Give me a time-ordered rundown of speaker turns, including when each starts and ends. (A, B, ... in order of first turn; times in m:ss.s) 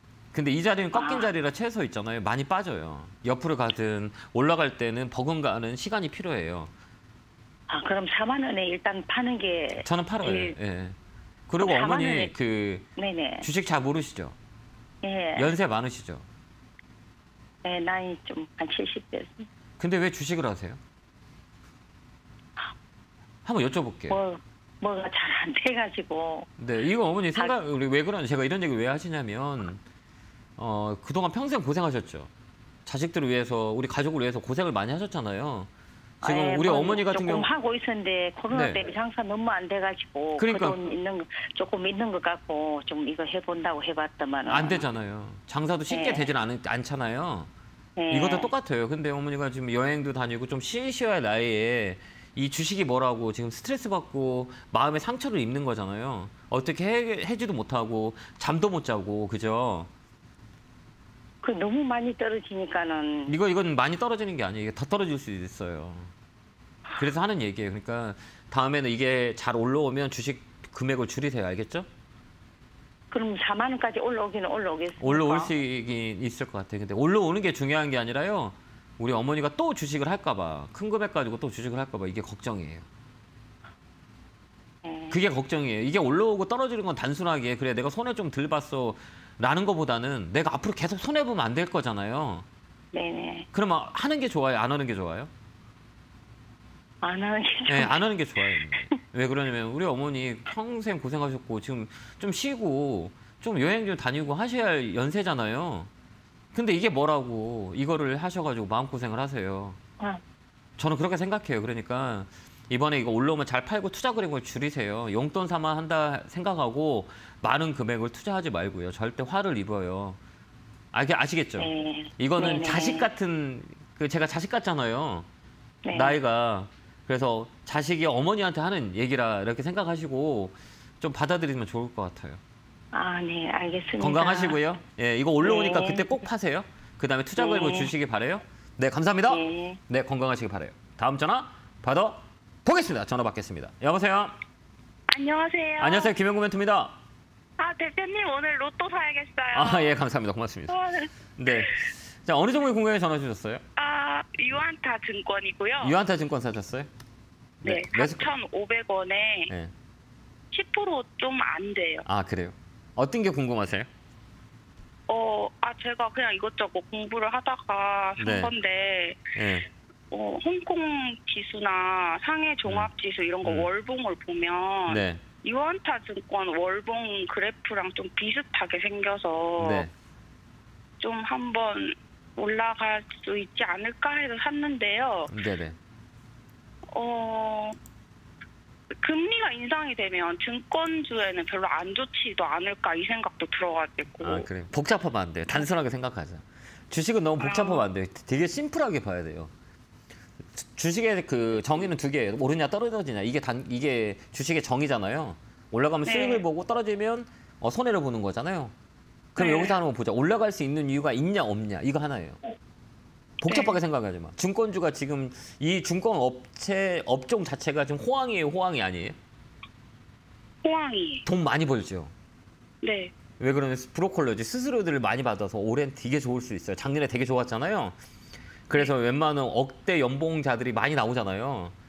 0:00.3-0:06.7 A
0:00.9-0:01.3 B
0:07.7-0:10.5 B
0:09.8-0:11.0 A
0:11.5-0:12.8 A
0:11.6-0:12.3 B
0:13.0-0:13.5 B
0:13.4-0:14.3 A
0:15.0-0:15.5 B
0:15.4-0:16.2 A
0:17.6-0:19.5 B
0:19.8-0:20.8 A
0:23.4-0:24.2 A
0:24.1-0:26.5 B
0:26.6-0:29.8 A
0:30.6-0:32.3 A
0:32.8-0:35.7 A
0:36.2-0:37.5 A
0:36.2-0:44.8 B
0:38.5-0:38.8 A
0:40.4-0:40.8 A
0:44.5-0:47.5 A
0:45.9-0:46.3 B
0:48.0-0:48.5 B
0:48.1-0:59.9 A
1:01.4-1:03.4 B
1:03.3-1:06.1 A
1:07.0-1:11.9 A
1:13.1-1:15.5 B
1:15.0-1:22.8 A
1:24.8-1:25.2 B
1:25.1-1:32.4 A
1:32.9-1:33.5 B
1:33.5-1:35.3 A
1:37.0-1:38.0 B
1:37.7-1:45.9 A
1:46.5-1:49.8 A
1:50.8-2:00.2 A
2:00.9-2:05.3 A
2:01.6-2:03.1 B
2:05.8-2:06.2 B
2:05.9-2:12.4 A
2:12.9-2:14.6 B
2:14.0-2:24.4 A
2:15.4-2:16.1 B
2:17.4-2:17.9 B
2:19.3-2:19.8 B
2:25.1-2:26.1 C
2:25.8-2:27.0 A
2:27.6-2:30.0 C
2:29.5-2:30.7 A
2:30.7-2:31.1 C
2:31.4-2:33.6 A
2:33.8-2:36.0 C
2:35.8-2:36.9 A
2:37.6-2:38.3 A
2:37.6-2:39.5 C
2:40.5-2:42.0 C
2:42.0-2:43.9 A
2:45.1-2:49.2 C
2:48.2-2:48.5 A
2:49.3-2:49.7 A
2:50.1-2:59.9 C
2:53.4-2:53.7 A
2:54.9-2:55.2 A
2:59.6-2:59.9 A
3:01.0-3:05.3 C
3:05.3-3:05.8 A
3:06.9-3:07.8 C
3:08.9-3:14.4 C
3:14.2-3:19.5 A
3:17.4-3:17.8 C
3:20.5-3:28.7 A
3:26.0-3:26.4 C
3:29.3-3:32.4 A
3:29.4-3:29.7 C
3:33.4-3:39.2 A
3:33.5-3:33.7 C
3:40.6-3:41.3 C
3:41.2-3:42.1 A
3:42.8-3:43.1 C
3:43.4-3:48.0 A
3:48.7-3:51.7 A